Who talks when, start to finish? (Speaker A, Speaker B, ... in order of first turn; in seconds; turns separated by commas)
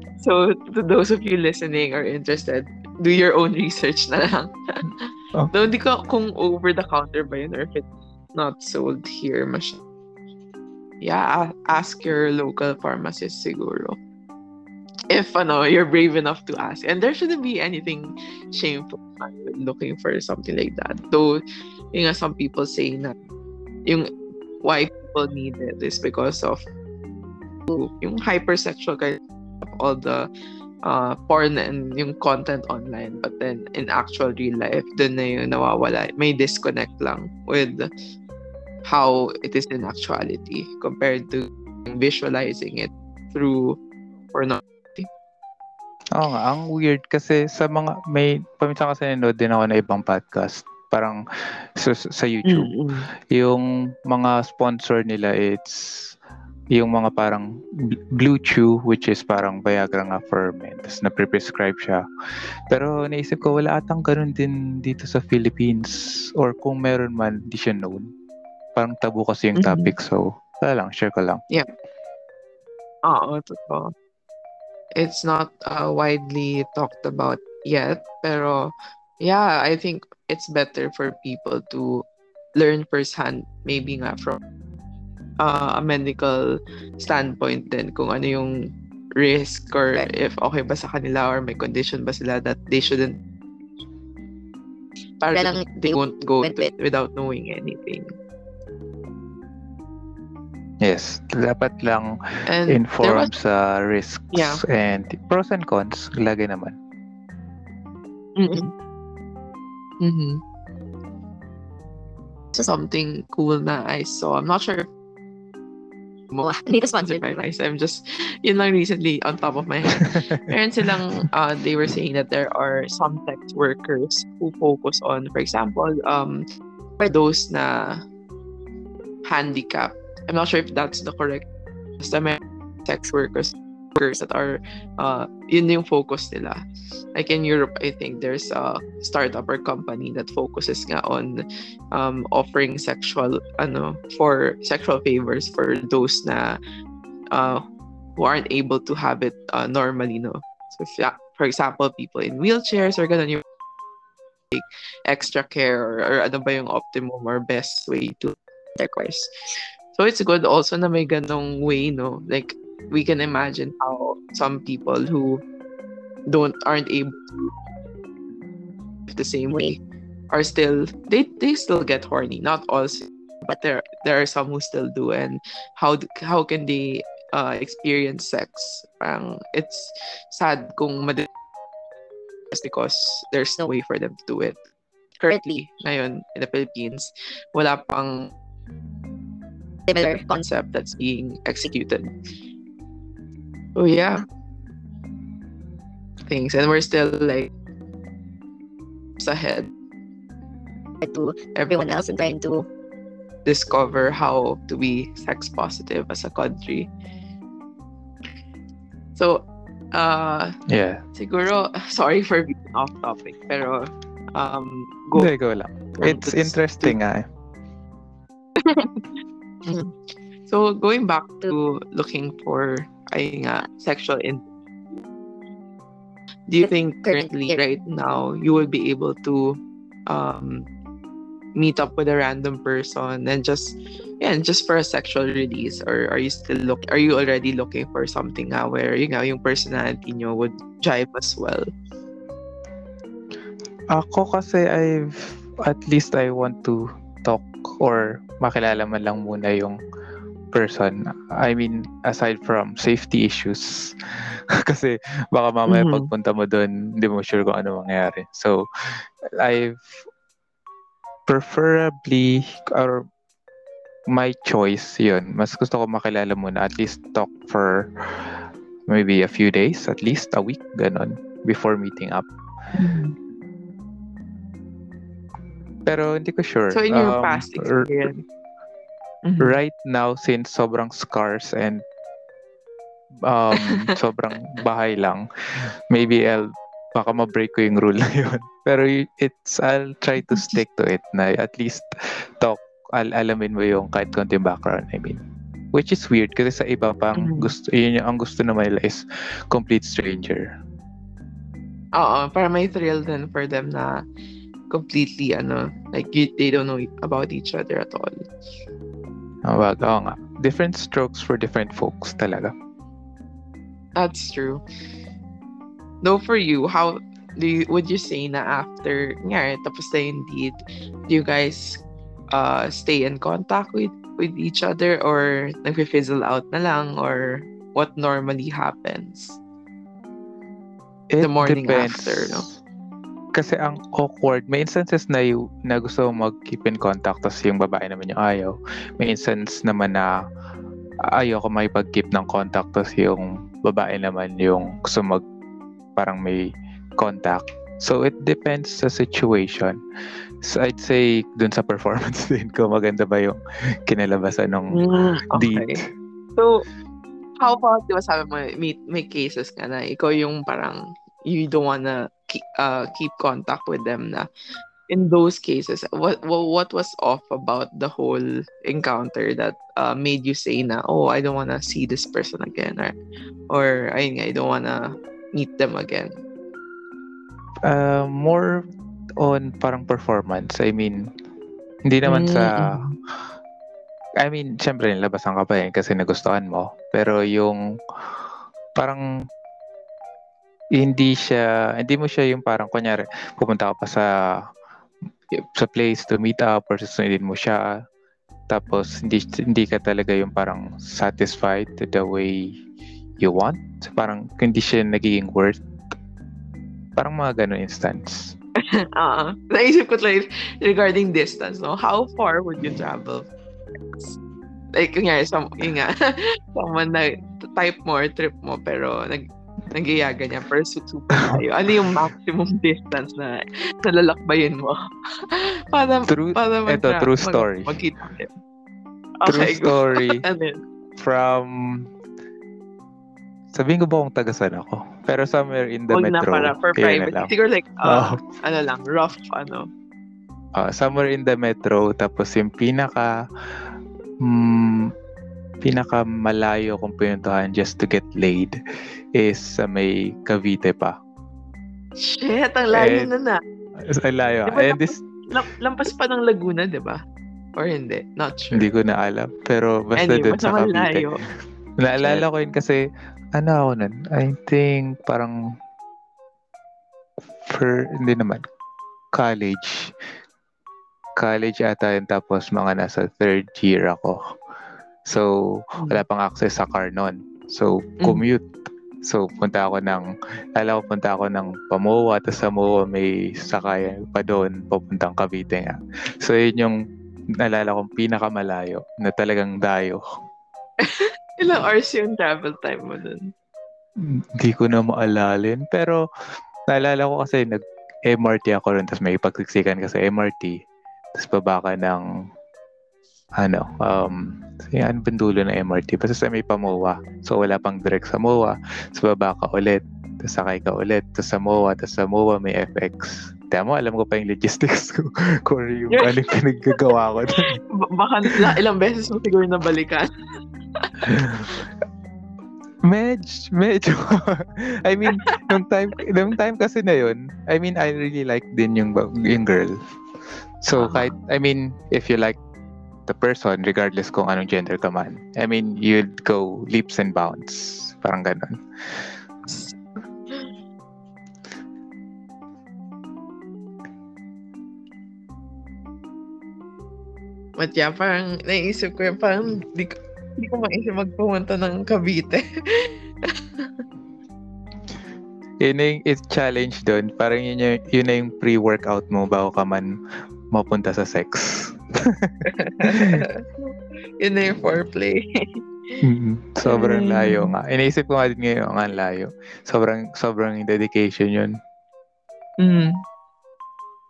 Speaker A: 0.2-9.8, Speaker A: 11.0-14.0, Speaker A: 15.1-21.4, Speaker A: 21.9-23.1, Speaker A: 24.6-26.6, Speaker A: 27.7-30.3, Speaker A: 30.8-37.9, Speaker A: 38.9-43.8, Speaker A: 44.3-45.1, Speaker B: 46.1-52.8, Speaker A: 52.4-53.1, Speaker B: 53.3-56.1, Speaker B: 56.7-57.5, Speaker B: 58.1-62.0, Speaker B: 62.7-68.1, Speaker B: 68.8-71.4, Speaker A: 69.5-69.9, Speaker A: 73.0-73.9, Speaker A: 75.0-82.0, Speaker A: 82.6-84.4, Speaker A: 85.4-93.2, Speaker A: 95.2-98.1, Speaker C: 95.3-96.7, Speaker B: 100.8-106.8, Speaker A: 102.5-103.3, Speaker A: 104.3-104.6, Speaker A: 108.4-108.7, Speaker A: 110.0-110.4, Speaker A: 112.5-114.9, Speaker A: 116.3-126.4, Speaker C: 116.4-117.4, Speaker B: 120.0-120.4, Speaker A: 127.0-128.0, Speaker A: 129.2-131.5, Speaker A: 132.0-136.6, Speaker A: 137.1-146.6, Speaker A: 147.3-147.6, Speaker A: 148.2-153.4, Speaker A: 154.5-159.3, Speaker A: 159.9-165.4, Speaker A: 166.3-167.5, Speaker A: 169.1-169.8, Speaker A: 170.3-181.3, Speaker A: 182.5-184.6, Speaker A: 185.2-188.3, Speaker C: 185.3-185.6, Speaker C: 189.9-190.4, Speaker A: 190.2-192.1, Speaker A: 193.8-194.2, Speaker A: 196.3-197.5, Speaker A: 199.2-199.7, Speaker C: 201.0-202.7, Speaker A: 201.5-202.3, Speaker A: 203.4-206.9, Speaker A: 209.2-210.5, Speaker B: 210.7-211.0, Speaker A: 211.1-215.3, Speaker B: 215.2-217.2, Speaker A: 216.0-216.9, Speaker A: 220.5-224.4, Speaker A: 226.5-230.7, Speaker C: 226.6-227.5, Speaker A: 231.6-241.7, Speaker B: 243.9-249.8, Speaker B: 250.5-259.9, Speaker A: 255.7-256.1, Speaker B: 261.3-263.0, Speaker B: 264.1-272.2, Speaker A: 272.8-273.1, Speaker B: 275.9-277.9, Speaker A: 276.7-278.2, Speaker A: 279.2-279.6, Speaker B: 279.4-281.8, Speaker B: 283.2-295.2, Speaker A: 283.5-283.9, Speaker A: 290.3-290.6, Speaker B: 295.7-300.5, Speaker A: 297.1-297.5, Speaker A: 301.9-304.1, Speaker A: 304.7-308.2, Speaker B: 309.5-312.5, Speaker A: 313.9-314.6, Speaker A: 316.0-329.4, Speaker B: 331.1-332.6, Speaker A: 331.2-332.5, Speaker B: 333.3-340.1, Speaker B: 341.1-345.2, Speaker B: 345.9-346.4, Speaker B: 347.0-349.8, Speaker B: 350.4-355.9, Speaker A: 354.7-355.8, Speaker A: 356.4-356.6, Speaker A: 357.4-364.3, Speaker A: 364.9-372.9, Speaker A: 373.5-376.2, Speaker B: 377.7-378.5, Speaker B: 379.2-381.0, Speaker B: 381.9-382.8, Speaker A: 382.0-382.9, Speaker B: 384.2-388.2, Speaker B: 388.8-389.0, Speaker B: 390.8-394.1, Speaker B: 395.3-397.8, Speaker B: 398.5-402.6, Speaker B: 403.2-405.6, Speaker B: 406.9-408.3, Speaker A: 408.8-413.3, Speaker A: 414.7-424.8, Speaker B: 421.3-421.9, Speaker A: 425.3-428.3, Speaker B: 426.1-427.8, Speaker A: 429.2-430.6, Speaker B: 429.2-430.2, Speaker B: 431.0-431.9, Speaker B: 433.5-437.3, Speaker A: 435.9-439.7, Speaker B: 437.8-438.2, Speaker B: 440.5-443.1, Speaker B: 444.2-444.9, Speaker B: 445.6-448.6, Speaker B: 449.1-450.9, Speaker A: 452.0-453.4, Speaker B: 452.7-453.1, Speaker B: 453.8-455.0, Speaker A: 454.5-457.0, Speaker A: 457.6-458.6, Speaker B: 458.5-461.1, Speaker A: 460.0-461.2, Speaker B: 461.8-462.8, Speaker A: 462.0-462.2, Speaker B: 463.3-465.4, Speaker B: 467.4-468.4, Speaker B: 469.1-469.9, Speaker B: 471.2-474.2, Speaker B: 475.1-478.4, Speaker B: 479.0-486.8, Speaker B: 487.4-490.0, Speaker A: 490.8-493.3, Speaker B: 494.0-496.0, Speaker B: 496.7-500.6, Speaker B: 501.1-502.0, Speaker B: 503.4-517.6, Speaker A: 515.9-516.4, Speaker A: 517.3-520.1, Speaker B: 518.3-518.5, Speaker A: 520.8-521.6, Speaker B: 521.1-521.6, Speaker B: 522.9-529.8, Speaker A: 525.1-525.4, Speaker B: 530.6-532.4, Speaker A: 530.8-531.1, Speaker B: 533.1-539.0, Speaker A: 539.5-539.8, Speaker A: 547.6-553.7, Speaker B: 555.6-560.0, Speaker B: 560.5-563.2, Speaker A: 562.5-565.6, Speaker B: 566.0-571.6, Speaker A: 566.6-567.5, Speaker A: 572.6-573.0